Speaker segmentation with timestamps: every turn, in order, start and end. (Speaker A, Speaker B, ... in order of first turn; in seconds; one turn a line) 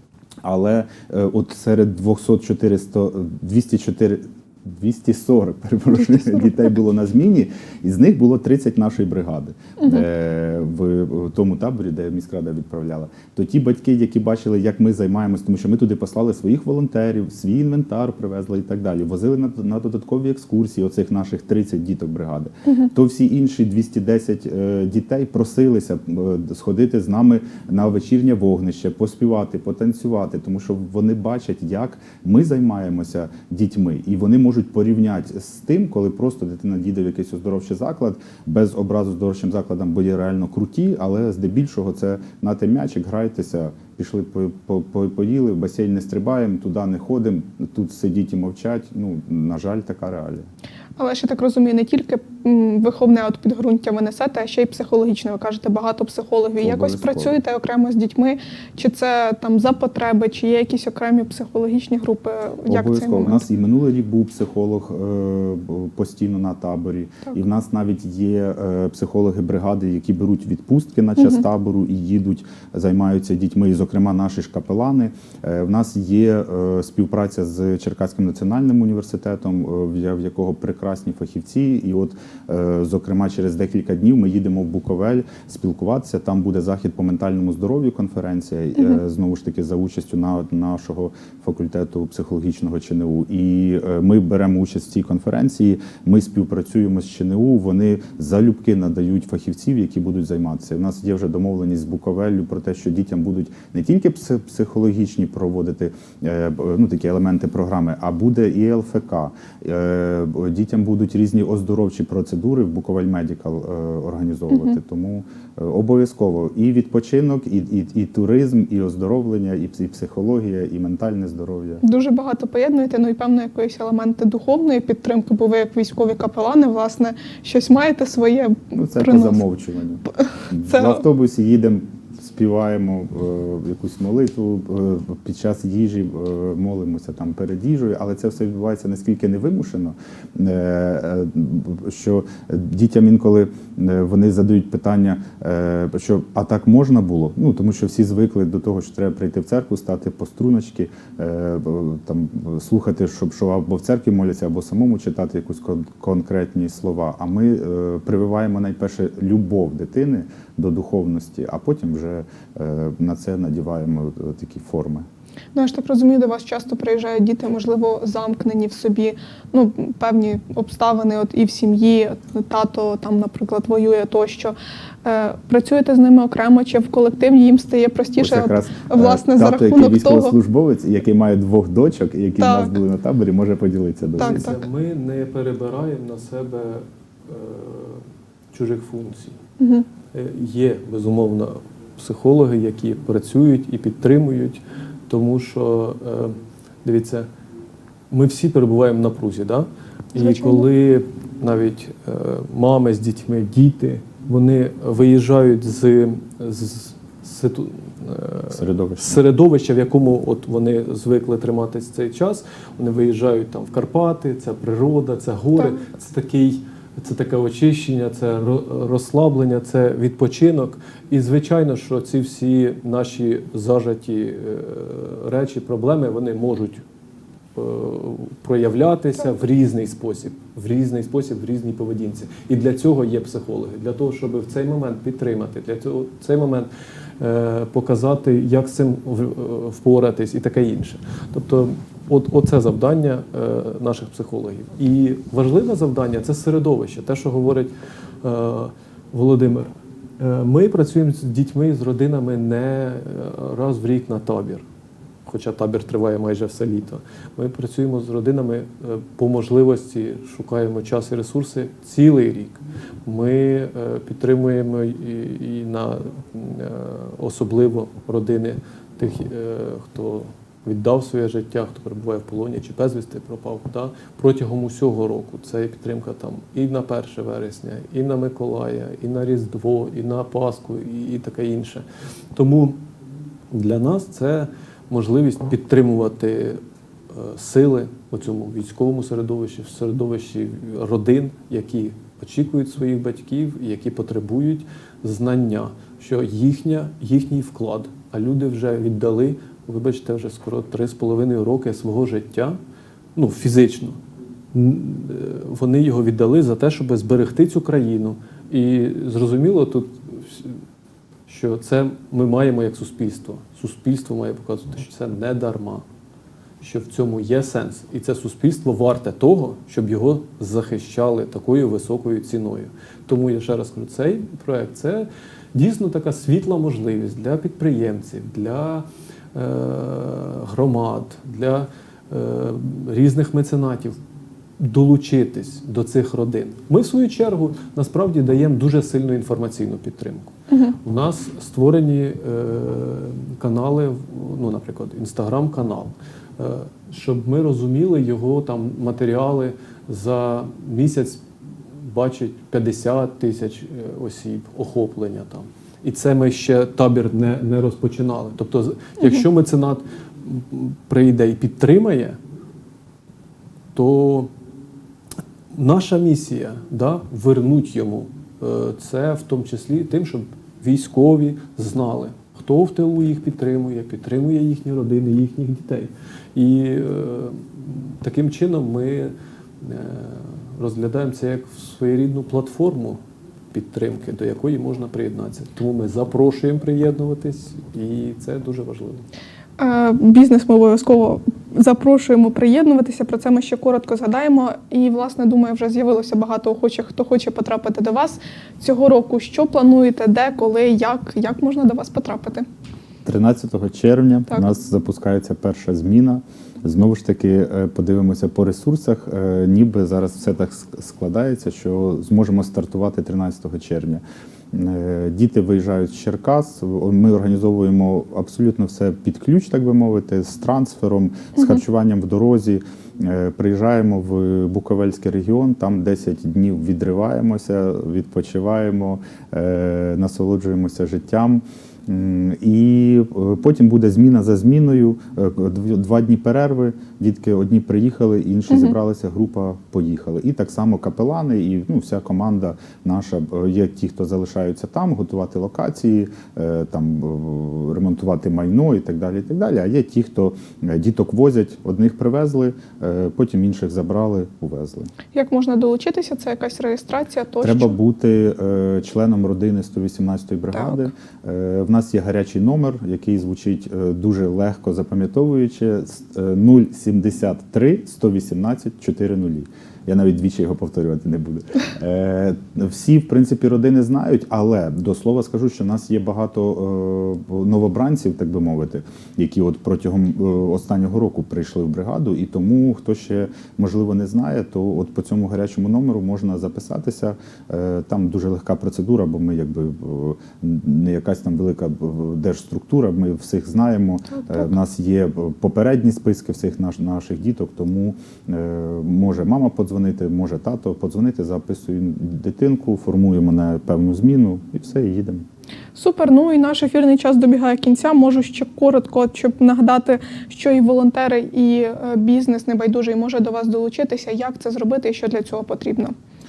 Speaker A: 0.4-50.5
Speaker B: 6.1-6.4
Speaker B: 9.8-10.1
Speaker B: 22.7-22.9
Speaker B: 51.0-63.4
Speaker A: 56.6-57.4
Speaker A: 62.7-121.8
Speaker B: 121.8-129.4
Speaker A: 128.7-165.1
Speaker B: 130.7-131.0
Speaker B: 165.6-180.4
Speaker A: 178.2-184.6
Speaker B: 182.4-182.8
Speaker B: 184.2-184.6
Speaker C: 184.2-189.4
Speaker B: 189.6-189.9
Speaker C: 190.1-197.3
Speaker C: 198.1-226.8
Speaker B: 200.2-200.7
Speaker A: 208.5-209.2
Speaker C: 227.6-236.7
Speaker C: 237.2-254.7
Speaker C: 255.3-282.8
Speaker C: 283.5-302.6
Speaker C: 303.2-304.0
Speaker C: 304.5-310.6
Speaker C: 311.3-315.9
Speaker C: 316.6-334.0
Speaker C: 334.6-351.2
Speaker C: 351.8-362.2
Speaker C: 363.8-364.3
Speaker C: 365.5-383.0
Speaker C: 383.5-389.1
Speaker B: 389.6-402.5
Speaker A: 403.1-454.9
Speaker B: 438.5-438.8
Speaker B: 455.1-457.8
Speaker A: 457.4-505.2
Speaker B: 460.6-460.8
Speaker B: 494.1-494.4
Speaker B: 505.8-515.9